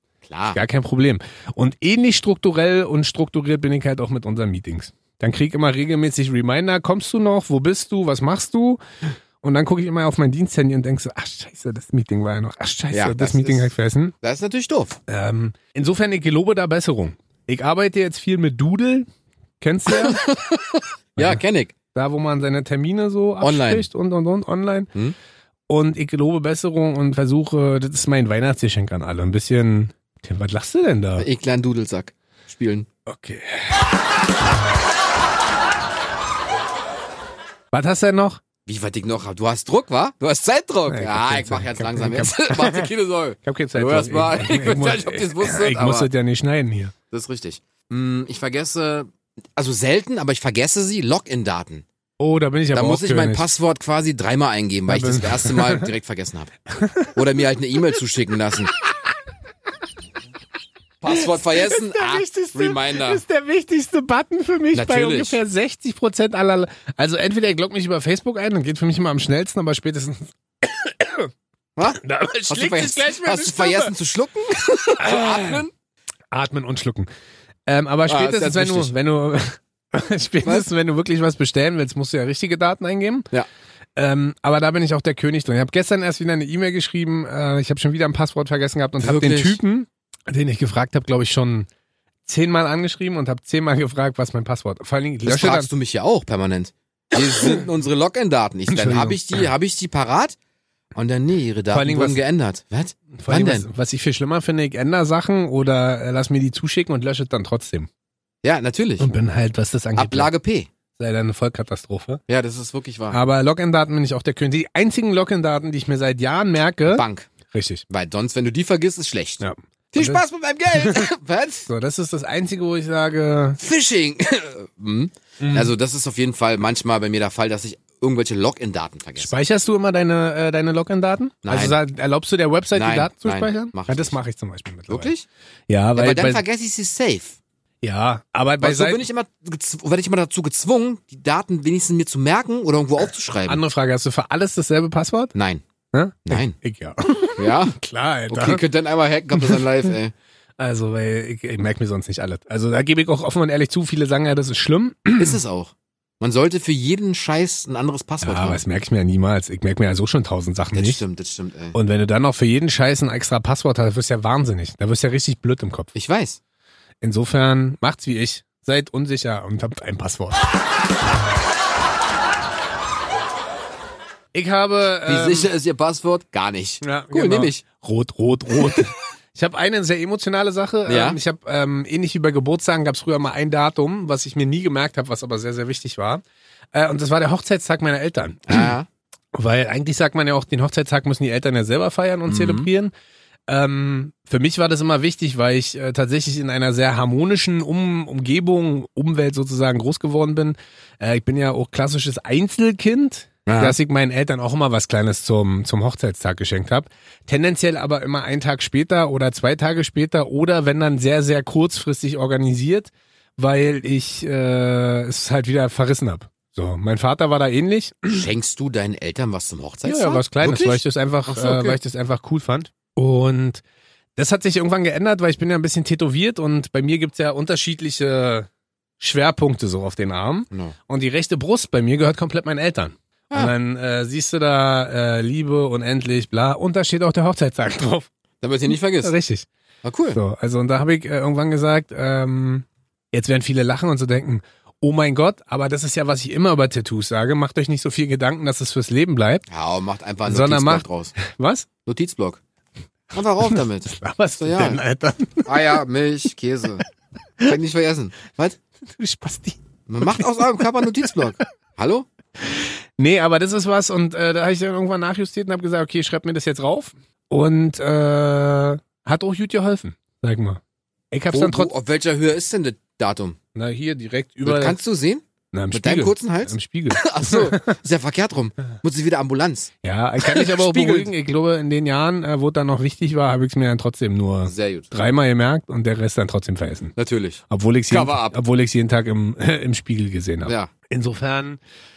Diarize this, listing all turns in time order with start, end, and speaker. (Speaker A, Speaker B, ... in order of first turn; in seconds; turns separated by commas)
Speaker A: 0.2-0.6, Speaker B: 0.5-8.8, Speaker B: 9.4-14.1, Speaker A: 12.9-13.7, Speaker A: 14.2-15.0, Speaker B: 15.1-19.1, Speaker B: 19.6-20.2, Speaker A: 19.9-21.7, Speaker B: 21.2-21.4, Speaker B: 21.9-24.9, Speaker A: 23.4-23.9, Speaker B: 25.7-31.3, Speaker A: 31.2-32.9, Speaker B: 33.0-33.8, Speaker B: 37.7-38.4, Speaker A: 38.6-46.1, Speaker B: 40.9-42.9, Speaker B: 43.4-46.9, Speaker A: 47.1-51.8, Speaker B: 52.2-53.5, Speaker A: 52.7-56.5, Speaker B: 54.9-55.9, Speaker B: 56.7-57.1, Speaker A: 57.1-58.7, Speaker A: 61.0-63.2, Speaker B: 61.1-71.3, Speaker A: 64.7-65.4, Speaker A: 71.8-75.7, Speaker B: 72.0-73.9, Speaker B: 75.0-75.6, Speaker B: 76.3-77.1, Speaker B: 77.7-83.3, Speaker A: 78.1-78.9, Speaker B: 84.0-91.7, Speaker A: 89.0-89.6, Speaker B: 92.2-95.7, Speaker A: 95.2-100.3, Speaker B: 98.7-99.5, Speaker A: 100.9-103.7, Speaker B: 101.7-102.2, Speaker B: 103.1-107.9, Speaker A: 108.4-109.1, Speaker B: 109.0-110.3, Speaker A: 110.0-110.7, Speaker B: 111.0-112.2, Speaker A: 112.3-113.2, Speaker B: 113.1-117.8, Speaker A: 116.9-117.3, Speaker A: 117.9-121.7, Speaker B: 119.4-120.2, Speaker B: 120.8-121.0, Speaker B: 121.7-123.6, Speaker A: 123.6-129.3, Speaker B: 125.4-125.7, Speaker B: 129.2-135.1, Speaker A: 131.4-131.8, Speaker A: 132.7-134.2, Speaker A: 134.9-135.2, Speaker B: 135.7-136.4, Speaker A: 135.9-137.4, Speaker B: 137.8-139.0, Speaker A: 138.6-143.6, Speaker B: 143.5-145.3, Speaker A: 145.3-145.6, Speaker B: 145.9-148.6, Speaker A: 146.2-146.6, Speaker A: 147.4-147.8, Speaker A: 148.3-150.1, Speaker B: 150.6-155.4, Speaker A: 155.2-158.6, Speaker B: 158.2-161.0, Speaker A: 160.7-161.8, Speaker B: 161.7-165.9, Speaker A: 165.9-166.4, Speaker B: 167.0-170.4, Speaker B: 174.3-175.5, Speaker A: 175.1-177.6, Speaker B: 176.8-186.2, Speaker A: 180.8-181.2, Speaker B: 186.7-188.7, Speaker A: 188.5-188.9, Speaker B: 189.3-192.9, Speaker A: 192.3-192.7, Speaker B: 193.5-218.3, Speaker A: 203.4-203.8, Speaker A: 218.1-221.8, Speaker B: 219.8-223.6, Speaker B: 224.2-228.5, Speaker B: 229.0-238.1, Speaker A: 238.4-239.1, Speaker B: 238.7-239.5, Speaker A: 239.8-240.2, Speaker B: 240.1-249.4, Speaker A: 249.5-251.1, Speaker B: 250.2-251.7, Speaker A: 251.8-252.4, Speaker A: 253.1-254.8, Speaker B: 253.5-255.5, Speaker A: 255.4-256.8, Speaker A: 257.4-258.6, Speaker B: 258.9-261.1, Speaker A: 259.9-262.1, Speaker B: 262.5-270.6, Speaker B: 271.1-271.7, Speaker A: 271.3-273.4, Speaker B: 273.5-274.8, Speaker A: 274.4-281.1, Speaker B: 275.5-277.8, Speaker B: 279.8-286.9, Speaker A: 284.4-284.9, Speaker A: 286.9-288.3, Speaker B: 287.5-291.6